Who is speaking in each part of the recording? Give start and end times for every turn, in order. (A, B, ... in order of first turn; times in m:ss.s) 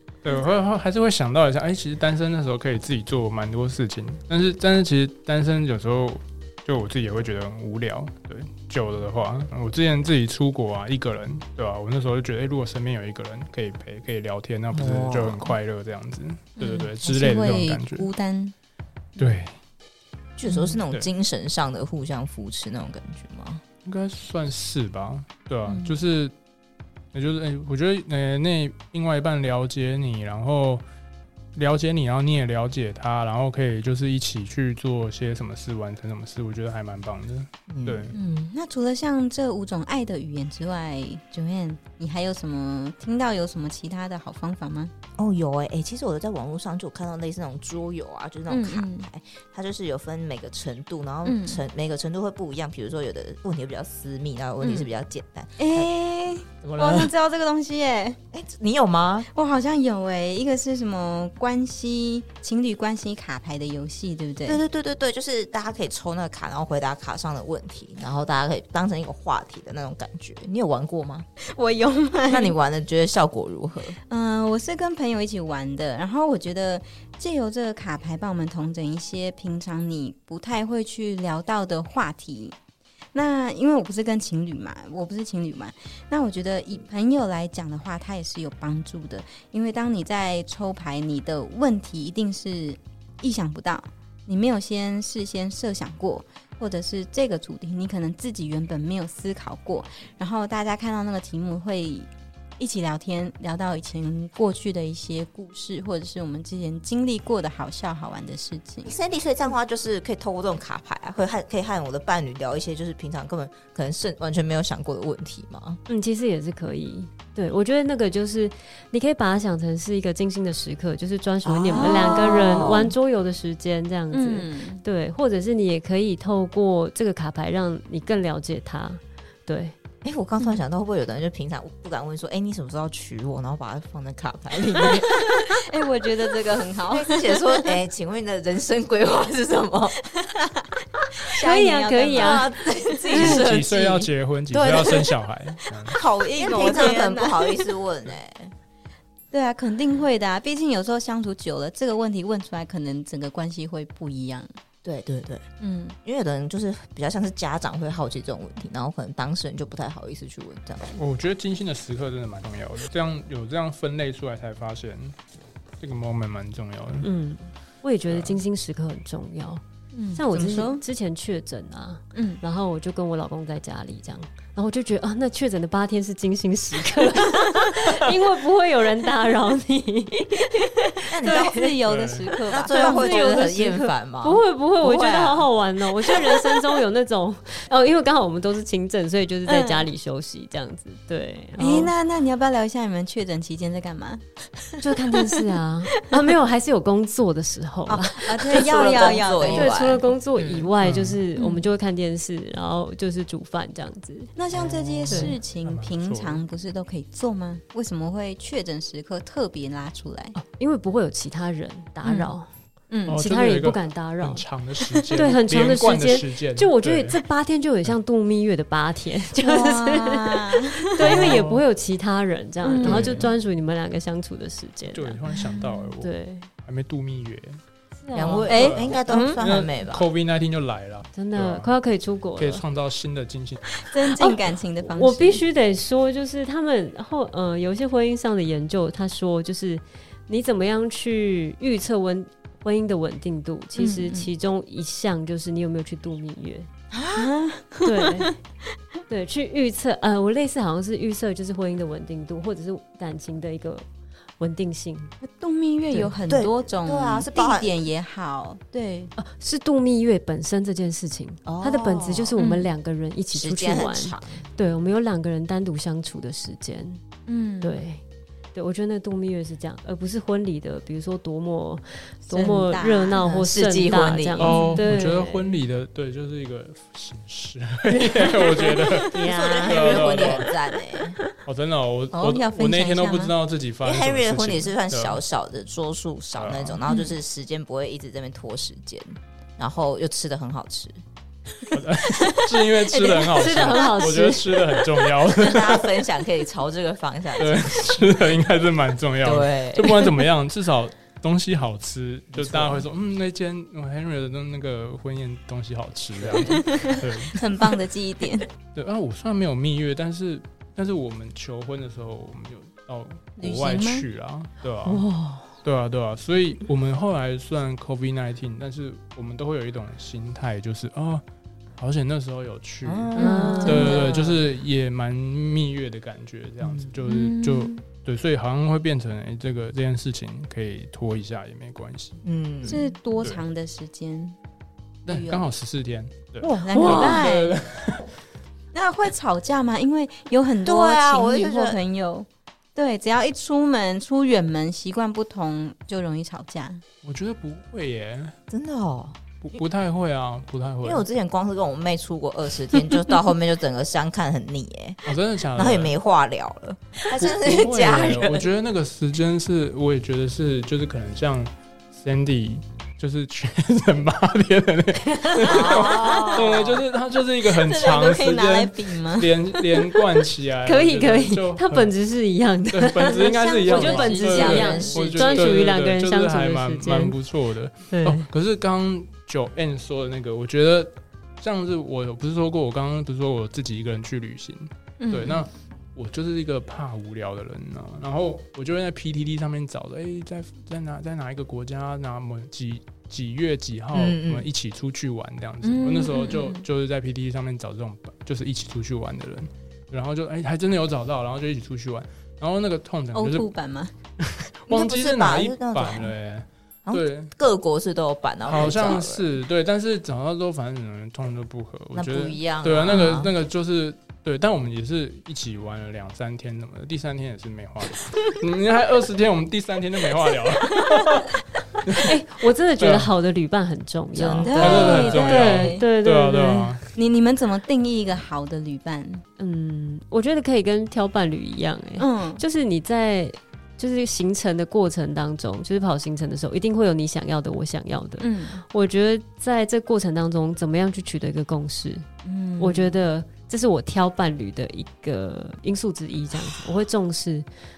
0:00.2-0:18.1 A
0:14.7-0:15.5 B
0:16.6-0:18.5 C
0:19.2-0:19.6 A
0:20.4-0:23.6 B
0:20.5-0:20.8 C
0:23.8-0:26.3 A
0:25.6-0:25.9 C
0:27.1-0:30.8 A
0:31.5-0:38.2 A
0:37.7-0:38.1 B
0:38.1-0:44.9 C
0:45.2-0:55.9 B
0:48.5-0:49.1 C
0:51.2-0:51.6 C
0:54.6-0:54.9 C
0:55.6-0:58.2 C
0:56.6-0:57.1 B
0:58.3-0:59.3 B
0:59.3-1:04.6 C
1:04.5-1:11.2 B
1:11.5-1:12.5 C
1:12.3-1:14.0 B
1:14.1-1:22.6 C
1:23.1-1:48.9 C
1:48.8-1:55.8 B
1:55.9-2:09.8 D
2:01.4-2:02.9 B
2:01.7-2:02.8 C
2:04.1-2:04.8 C
2:10.0-2:15.6 B
2:15.3-2:17.8 C
2:16.9-2:20.0 B
2:21.2-2:23.4 C
2:21.4-2:22.5 D
2:22.1-2:24.1 B
2:23.1-2:26.0 A
2:24.5-2:25.1 C
2:25.8-2:27.7 C
2:26.3-2:28.5 B
2:29.3-2:34.5 C
2:34.8-2:35.5 B
2:35.6-2:36.0 C
2:36.0-2:41.0 B
2:40.9-2:45.2 A
2:45.8-2:47.1 A
2:47.0-2:49.6 D
2:48.1-2:48.4 A
2:49.9-2:50.8 C
2:50.1-3:01.7 D
2:52.1-2:52.4 C
3:01.1-3:03.8 C
3:01.1-3:01.6 B
3:01.9-3:02.3 A
3:02.5-3:05.5 B
3:02.7-3:11.9 D
3:06.1-3:06.6 C
3:09.5-3:09.9 C
3:11.6-3:15.5 C
3:14.8-3:24.3 D
3:17.9-3:20.7 B
3:18.1-3:20.0 C
3:20.8-3:21.2 A
3:21.4-3:21.6 C
3:24.4-3:30.4 C
3:24.5-3:25.0 B
3:25.1-3:26.4 A
3:25.1-3:25.4 D
3:30.4-3:32.5 D
3:32.0-3:32.3 C
3:32.9-3:33.2 C
3:33.0-3:37.2 A
3:33.1-3:34.4 D
3:35.1-3:45.2 D
3:39.4-3:41.4 C
3:41.0-3:41.6 A
3:42.6-3:43.2 C
3:42.8-3:43.3 B
3:44.9-3:47.6 A
3:45.3-3:45.9 C
3:46.0-3:46.5 D
3:48.0-3:48.6 D
3:48.1-3:50.1 B
3:48.2-3:51.7 A
3:48.5-3:49.4 C
3:51.1-3:52.6 D
3:52.4-3:53.8 A
3:53.8-3:55.4 C
3:54.2-4:06.7 D
4:03.8-4:04.3 C
4:06.9-4:07.3 B
4:07.1-4:08.3 C
4:07.8-4:08.4 D
4:09.1-4:13.9 D
4:14.4-4:15.1 D
4:15.2-4:19.1 C
4:16.3-4:17.7 B
4:19.2-4:27.0 D
4:21.4-4:22.4 B
4:22.4-4:22.7 C
4:23.3-4:24.4 B
4:27.3-4:27.8 C
4:27.6-4:28.0 D
4:28.6-4:35.5 D
4:32.3-4:33.3 C
4:33.2-4:34.8 B
4:34.4-4:40.5 A
4:34.5-4:34.8 C
4:38.0-4:40.4 D
4:39.1-4:41.2 B
4:41.4-4:45.2 A
4:42.1-4:43.3 C
4:43.8-4:51.0 B
4:46.4-4:46.8 A
4:46.9-4:47.1 C
4:51.7-4:56.0 A
4:52.9-4:54.1 C
4:53.3-4:54.6 D
4:55.4-4:58.1 B
4:57.4-5:07.4 A
4:59.2-5:00.1 B
5:02.3-5:02.9 B
5:06.2-5:06.6 B
5:06.5-5:08.5 C
5:08.7-5:15.0 A
5:13.4-5:14.0 C
5:14.8-5:15.6 D
5:15.6-5:21.2 A
5:21.8-5:33.4 A
5:22.8-5:24.4 B
5:23.2-5:24.0 D
5:23.2-5:24.4 C
5:26.6-5:26.9 B
5:27.0-5:27.8 C
5:32.2-5:32.8 B
5:32.6-5:34.4 C
5:35.1-5:38.2 A
5:35.1-5:35.5 C
5:36.4-5:37.2 B
5:36.6-5:37.6 C
5:38.7-5:46.8 C
5:40.6-5:41.8 B
5:47.0-5:48.4 A
5:48.5-5:49.2 B
5:49.4-5:51.0 A
5:50.8-5:58.5 B
5:55.1-5:55.9 A
5:57.1-6:11.9 A
6:05.4-6:06.8 B
6:06.0-6:06.4 C
6:07.4-6:10.0 C
6:10.6-6:17.2 D
6:12.7-6:43.5 A
6:13.4-6:14.1 C
6:13.7-6:15.6 B
6:17.9-6:18.3 D
6:25.0-6:25.4 C
6:33.9-6:34.5 B
6:35.6-6:36.6 C
6:43.1-6:43.9 C
6:44.2-6:47.3 A
6:44.7-6:46.1 B
6:46.9-6:49.2 B
6:48.4-7:02.1 A
6:51.9-6:53.3 B
7:01.9-7:06.7 D
7:02.8-7:03.1 A
7:04.2-7:05.1 B
7:04.4-7:05.8 C
7:04.4-7:06.9 A
7:06.9-7:09.2 C
7:09.4-7:22.1 D
7:12.0-7:12.4 C
7:18.2-7:18.6 C
7:22.2-7:23.0 C
7:22.6-7:27.5 D